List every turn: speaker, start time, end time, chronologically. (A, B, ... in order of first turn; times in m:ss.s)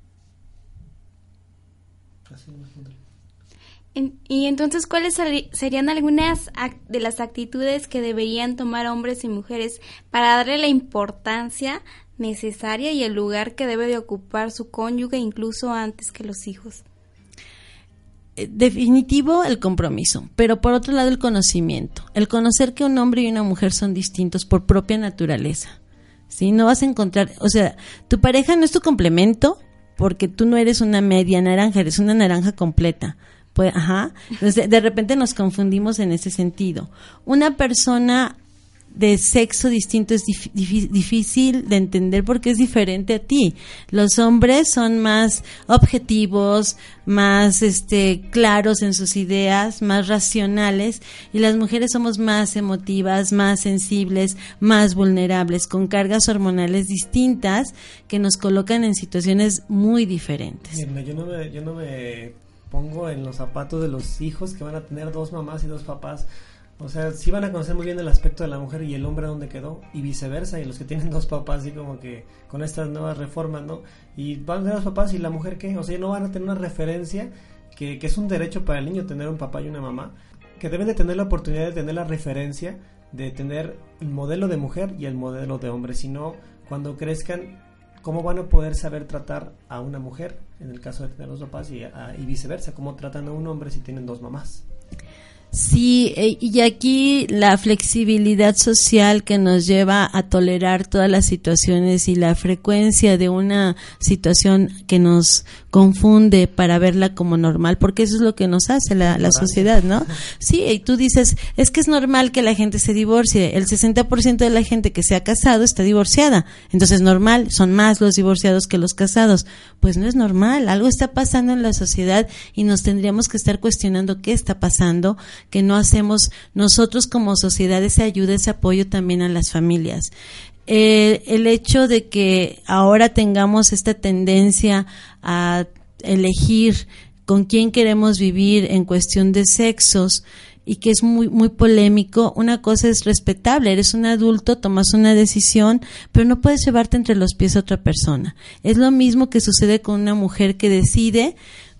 0:02.3-0:03.0 A
0:04.0-0:16.8 B
0:18.4-0:25.8 C
0:26.3-0:38.4 C
0:38.9-1:00.8 C
1:00.7-1:06.3 A
1:06.8-1:34.6 A
1:35.5-2:10.1 C
1:49.0-1:49.8 A
2:10.7-2:31.4 C